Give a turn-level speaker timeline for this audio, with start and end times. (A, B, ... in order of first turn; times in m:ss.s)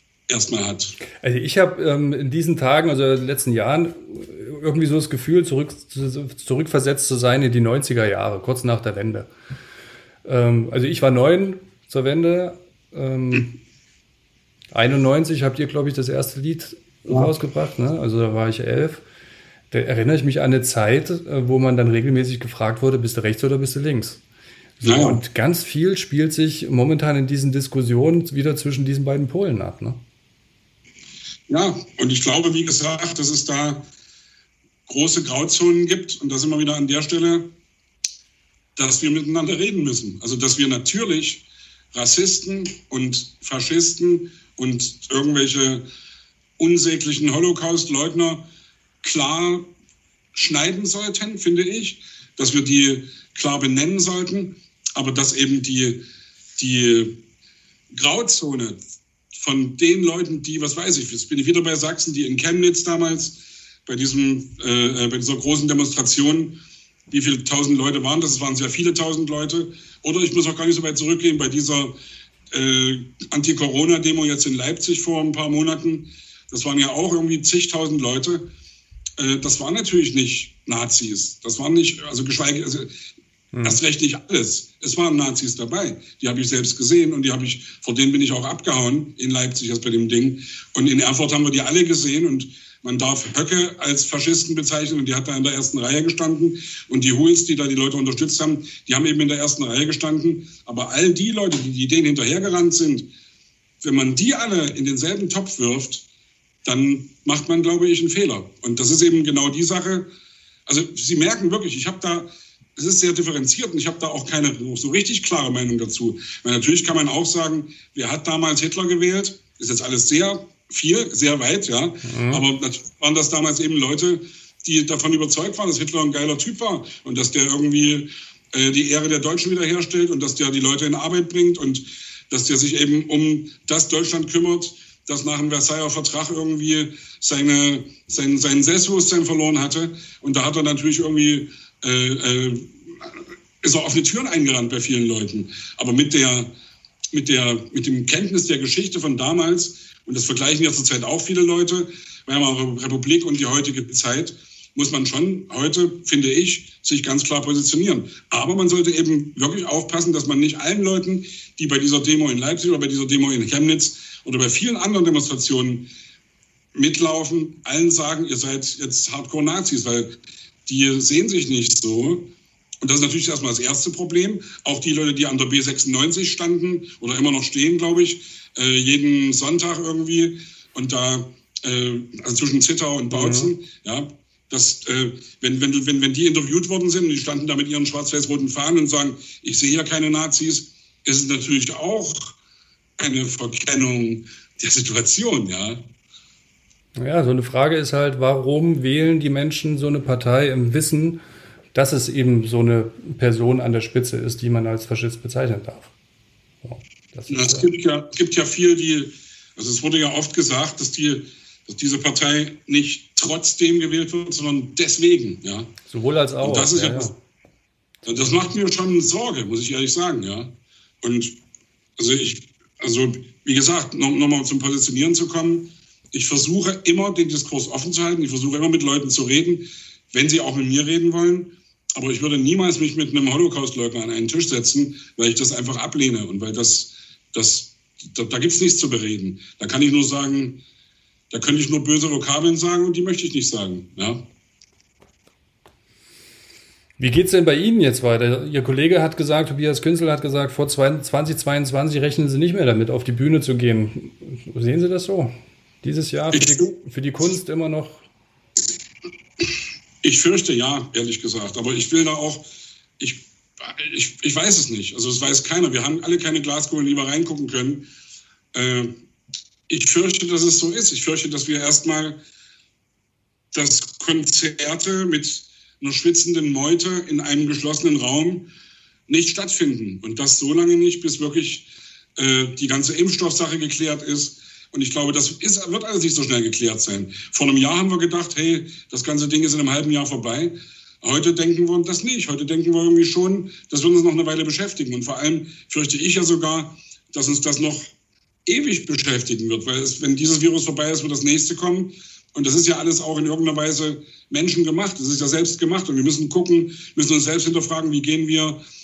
0:00.3-0:01.0 A
0:01.2-0:09.3 B
0:10.2-0:13.6 B
0:14.7-0:19.0 B
0:19.7-0:24.2 B
0:24.8-0:30.0 B
0:24.8-0:25.2 A
0:31.5-0:33.9 A
0:34.9-0:37.5 A
0:38.8-0:45.8 A
0:46.6-0:48.4 A
0:49.0-0:49.7 A
0:50.3-0:56.0 A
0:56.6-0:57.2 A
0:57.9-0:58.8 A
0:59.3-1:12.0 A
1:12.5-1:18.5 A
1:19.2-1:22.9 A
1:23.5-1:23.8 B
1:23.6-1:43.1 A
1:43.8-1:46.1 A
1:46.6-1:50.1 A
1:50.7-2:26.5 A
2:02.0-2:02.5 B
2:27.1-2:45.9 A
2:46.7-2:50.1 A
2:50.7-2:52.3 A
2:52.8-3:12.4 A
3:03.1-3:03.5 B
3:13.0-3:15.9 A
3:17.0-3:21.2 B
3:21.7-3:25.9 B
3:26.6-3:27.7 B
3:27.3-3:35.7 A
3:35.9-3:37.2 B
3:36.4-3:37.1 A
3:38.0-3:41.4 A
3:42.0-4:00.6 A
4:01.3-4:04.2 A
4:07.0-4:15.3 B
4:15.8-4:18.0 B
4:16.3-4:16.7 A
4:20.0-4:22.4 A
4:23.0-4:27.9 A
4:28.5-4:28.9 A
4:29.7-4:32.2 A
4:33.5-4:38.5 A
4:39.1-4:57.9 A
4:58.5-5:08.6 A